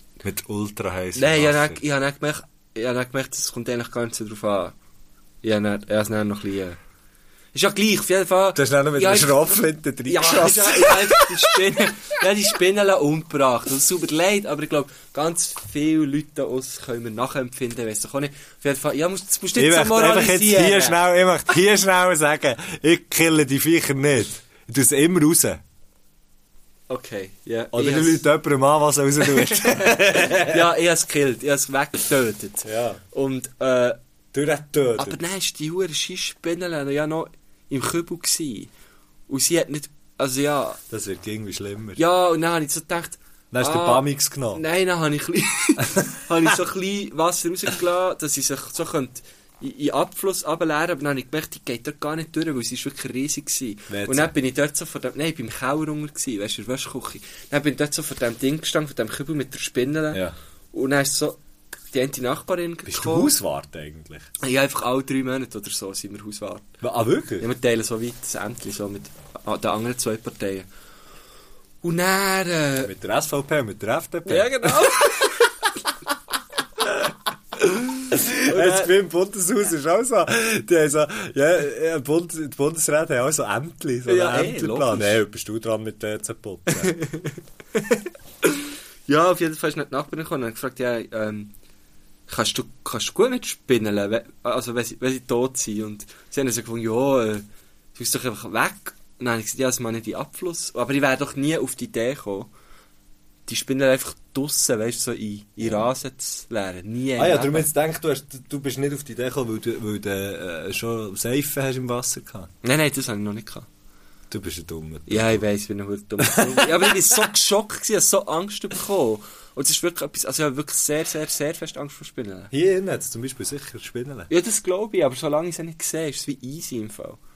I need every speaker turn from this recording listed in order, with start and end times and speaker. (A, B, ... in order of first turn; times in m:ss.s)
0:00.2-0:01.8 A
0:01.1-0:04.7 B
0:05.4-0:06.8 B
0:07.5-0:21.0 B
0:08.5-0:11.9 A
0:19.6-0:25.6 A
0:26.9-0:28.2 B
0:27.7-0:30.6 A
0:29.4-0:29.8 B
0:30.4-0:34.0 B
0:32.6-0:33.0 A
0:34.3-0:35.2 A
0:35.0-0:38.7 B
0:39.3-0:40.8 B
0:40.9-0:42.0 A
0:42.0-1:01.4 B
0:43.5-0:44.6 A
0:53.9-0:54.3 A
1:01.9-1:03.3 B
1:02.9-1:04.3 A
1:04.4-1:06.7 B
1:06.8-1:07.5 A
1:07.4-1:10.7 B
1:11.8-1:12.9 B
1:12.8-1:14.9 A
1:14.2-1:15.7 B
1:18.1-1:27.0 A
1:18.3-1:18.9 B
1:24.0-1:25.2 B
1:26.7-1:31.5 B
1:32.3-1:42.5 B
1:43.5-1:47.7 B
1:47.2-1:52.5 A
1:52.6-1:53.7 B
1:54.3-1:55.4 A
1:55.1-2:02.5 B
1:56.2-1:57.3 A
2:02.5-2:04.3 A
2:04.3-2:07.2 B